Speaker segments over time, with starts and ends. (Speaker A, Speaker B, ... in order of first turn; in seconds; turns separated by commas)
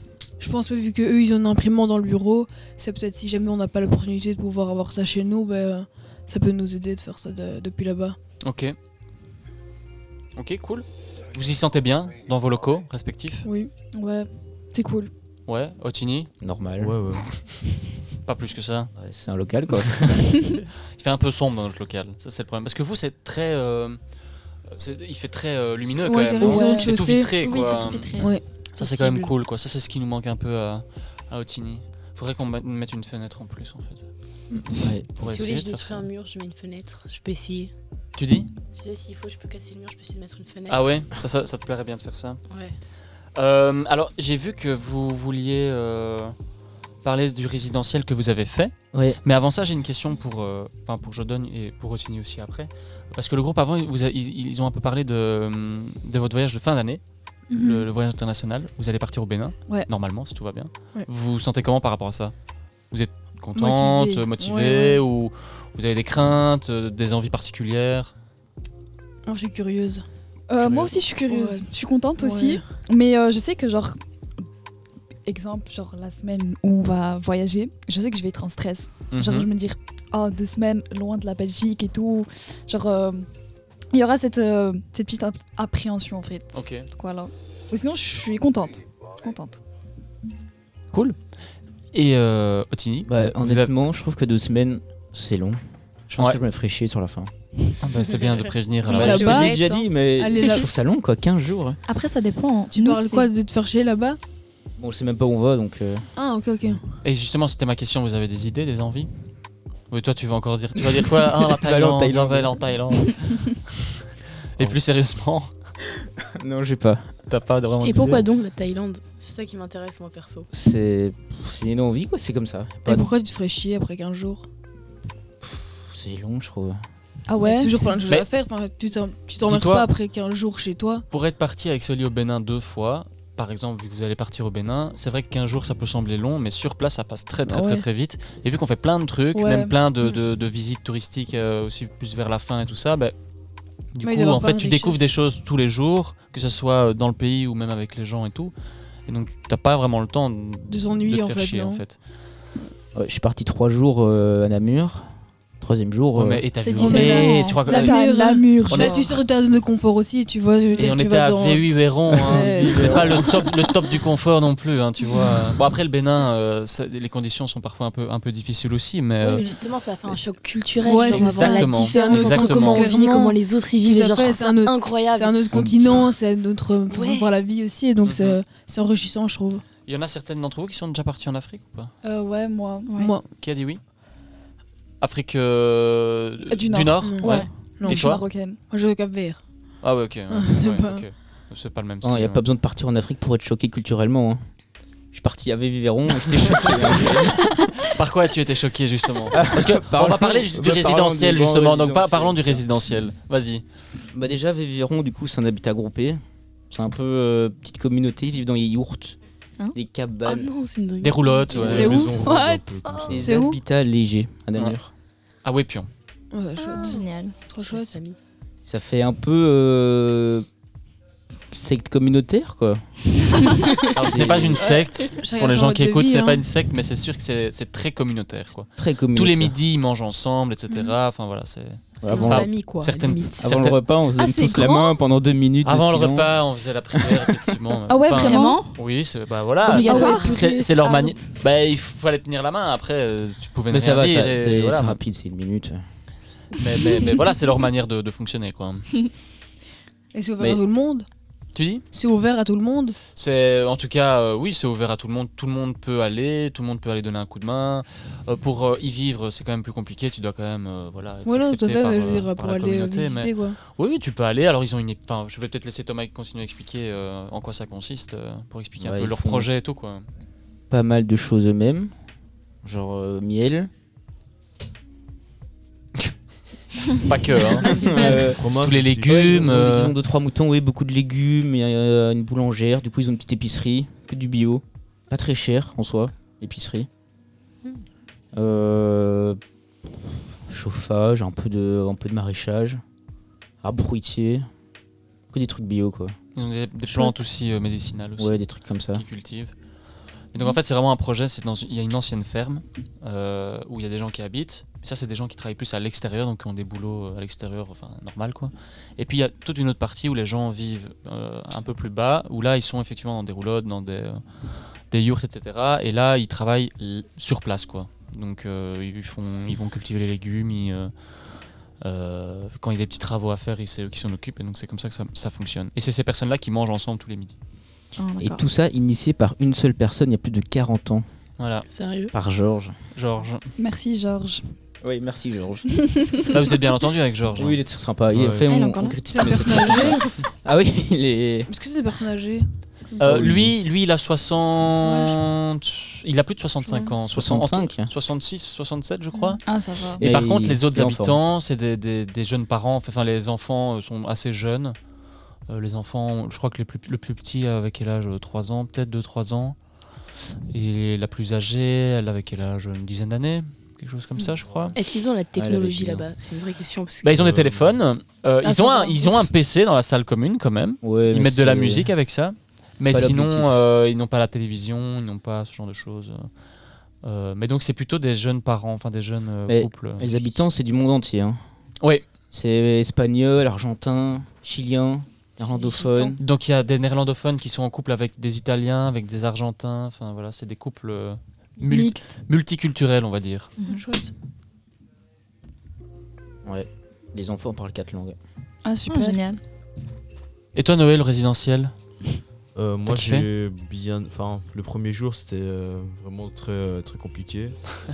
Speaker A: 0.4-8.2, Speaker B: 8.4-8.8, Speaker B: 10.4-13.5, Speaker A: 13.4-13.7, Speaker C: 13.9-15.1, Speaker B: 15.5-16.3, Speaker D: 16.4-17.0, Speaker E: 16.8-17.3, Speaker B: 18.2-18.9, Speaker D: 19.0-20.2, Speaker B: 20.1-20.4, Speaker B: 20.9-24.0, Speaker B: 24.7-28.2, Speaker A: 25.8-27.4, Speaker C: 26.4-26.9, Speaker F: 27.4-28.3, Speaker A: 28.1-29.2, Speaker B: 28.8-34.1, Speaker D: 34.5-35.2, Speaker B: 35.2-36.0, Speaker G: 35.2-37.7, Speaker B: 38.2-38.5, Speaker G: 38.7-41.0, Speaker B: 40.7-42.4, Speaker G: 42.5-42.8, Speaker B: 43.4-46.4, Speaker B: 47.0-62.3, Speaker D: 48.9-49.2, Speaker C: 57.5-57.9, Speaker B: 62.9-68.1, Speaker A: 63.5-65.0, Speaker A: 69.3-70.0, Speaker C: 70.5-74.0, Speaker B: 70.6-71.0, Speaker A: 71.3-72.6, Speaker C: 75.3-83.3, Speaker B: 79.1-79.5, Speaker C: 83.9-89.6, Speaker B: 86.5-86.9, Speaker B: 90.9-91.2, Speaker B: 91.9-93.7, Speaker D: 93.1-97.3, Speaker B: 96.1-96.4, Speaker B: 97.8-99.5, Speaker G: 97.9-98.6, Speaker A: 98.9-99.7, Speaker D: 98.9-101.8, Speaker F: 99.2-99.8, Speaker G: 99.3-99.8, Speaker A: 100.2-100.7, Speaker F: 101.9-103.3, Speaker A: 102.7-104.2, Speaker D: 104.8-106.1, Speaker A: 106.2-106.8, Speaker B: 107.0-109.1, Speaker B: 109.9-113.4, Speaker D: 111.5-112.7, Speaker B: 114.5-115.5, Speaker D: 116.4-117.1, Speaker B: 117.3-118.2, Speaker G: 117.8-120.5, Speaker D: 120.5-123.1, Speaker A: 122.8-124.5, Speaker D: 125.4-126.8, Speaker C: 127.3-127.8, Speaker A: 127.4-131.1, Speaker B: 129.4-129.9, Speaker B: 131.1-143.2, Speaker A: 137.5-137.8, Speaker C: 139.3-139.8, Speaker B: 143.9-148.5, Speaker A: 144.0-145.1, Speaker B: 149.1-152.0, Speaker A: 150.7-151.8, Speaker D: 152.9-156.5, Speaker B: 156.2-158.0, Speaker F: 156.7-157.6, Speaker A: 156.7-163.6, Speaker C: 157.7-159.2, Speaker B: 158.7-159.0, Speaker B: 160.8-169.5, Speaker A: 165.2-165.5, Speaker G: 169.2-175.5, Speaker A: 170.8-179.7, Speaker B: 171.1-172.9, Speaker G: 176.9-177.3, Speaker B: 178.0-178.4, Speaker B: 179.9-181.9, Speaker C: 182.0-182.9, Speaker F: 182.9-183.1, Speaker A: 182.9-183.3, Speaker B: 183.4-183.8, Speaker B: 185.0-188.2, Speaker C: 186.5-188.6, Speaker A: 187.0-189.4, Speaker B: 189.8-192.4, Speaker A: 190.3-191.1, Speaker D: 192.0-194.4, Speaker D: 195.1-197.5, Speaker B: 197.9-203.6, Speaker D: 199.3-202.6, Speaker D: 204.1-209.2, Speaker D: 209.7-210.5, Speaker G: 210.2-212.1, Speaker B: 211.0-212.0, Speaker A: 211.6-212.3, Speaker E: 211.6-213.3, Speaker C: 212.1-213.2, Speaker D: 213.1-214.9, Speaker A: 213.2-213.6, Speaker B: 215.4-215.9, Speaker A: 216.3-218.0, Speaker G: 216.6-218.2, Speaker F: 216.8-217.4, Speaker D: 218.7-220.5, Speaker D: 221.5-223.0, Speaker B: 223.9-233.8, Speaker D: 224.0-224.7, Speaker A: 225.1-226.4, Speaker D: 228.8-229.6, Speaker G: 232.0-233.5, Speaker D: 232.0-232.5, Speaker D: 233.4-236.4, Speaker C: 234.2-235.0, Speaker B: 235.6-245.0, Speaker D: 237.0-237.3, Speaker C: 237.9-238.7, Speaker F: 238.1-238.8, Speaker C: 239.7-241.2, Speaker F: 239.8-240.3, Speaker D: 243.7-245.8, Speaker B: 246.6-248.9, Speaker A: 250.1-251.1, Speaker B: 251.5-251.8, Speaker A: 251.9-253.0, Speaker B: 253.2-270.1, Speaker A: 261.2-263.6, Speaker D: 268.8-269.5, Speaker D: 270.7-271.9, Speaker D: 272.6-273.7, Speaker B: 277.0-279.9, Speaker D: 277.6-278.4, Speaker E: 278.2-279.6, Speaker D: 279.1-286.9, Speaker D: 288.3-289.4, Speaker D: 290.5-292.8, Speaker D: 293.6-294.5, Speaker D: 295.3-296.1, Speaker B: 296.4-299.5, Speaker D: 298.2-299.0, Speaker B: 300.3-314.2, Speaker B: 314.9-320.9, Speaker B: 321.8-327.4, Speaker F: 328.0-328.4, Speaker D: 328.2-331.1, Speaker B: 331.4-331.7, Speaker G: 331.7-332.1, Speaker D: 332.1-332.8, Speaker B: 332.9-333.5, Speaker C: 333.6-334.5, Speaker D: 334.8-335.6, Speaker B: 336.3-337.6, Speaker D: 337.4-341.5, Speaker E: 338.1-338.5, Speaker F: 338.5-339.0, Speaker A: 339.1-340.1, Speaker A: 341.5-343.2, Speaker B: 343.0-349.4, Speaker D: 343.1-343.5, Speaker A: 344.8-345.2, Speaker A: 346.7-347.0, Speaker D: 347.1-347.9, Speaker C: 349.4-350.0, Speaker D: 350.0-351.2, Speaker B: 350.0-354.8, Speaker B: 355.5-359.6, Speaker B: 360.5-364.8, Speaker E: 364.4-364.8, Speaker G: 364.8-367.2, Speaker D: 365.4-366.1, Speaker B: 367.0-376.3, Speaker E: 367.2-367.8, Speaker C: 368.4-369.3, Speaker D: 370.8-371.9, Speaker D: 372.9-373.6, Speaker B: 377.0-380.2, Speaker D: 379.5-381.4, Speaker D: 382.3-386.2, Speaker B: 386.2-393.5, Speaker C: 391.7-392.1, Speaker G: 393.7-394.1, Speaker D: 396.4-398.2, Speaker C: 398.6-399.2, Speaker F: 398.9-399.4, Speaker B: 400.6-401.7, Speaker E: 402.6-407.7, Speaker B: 402.9-403.3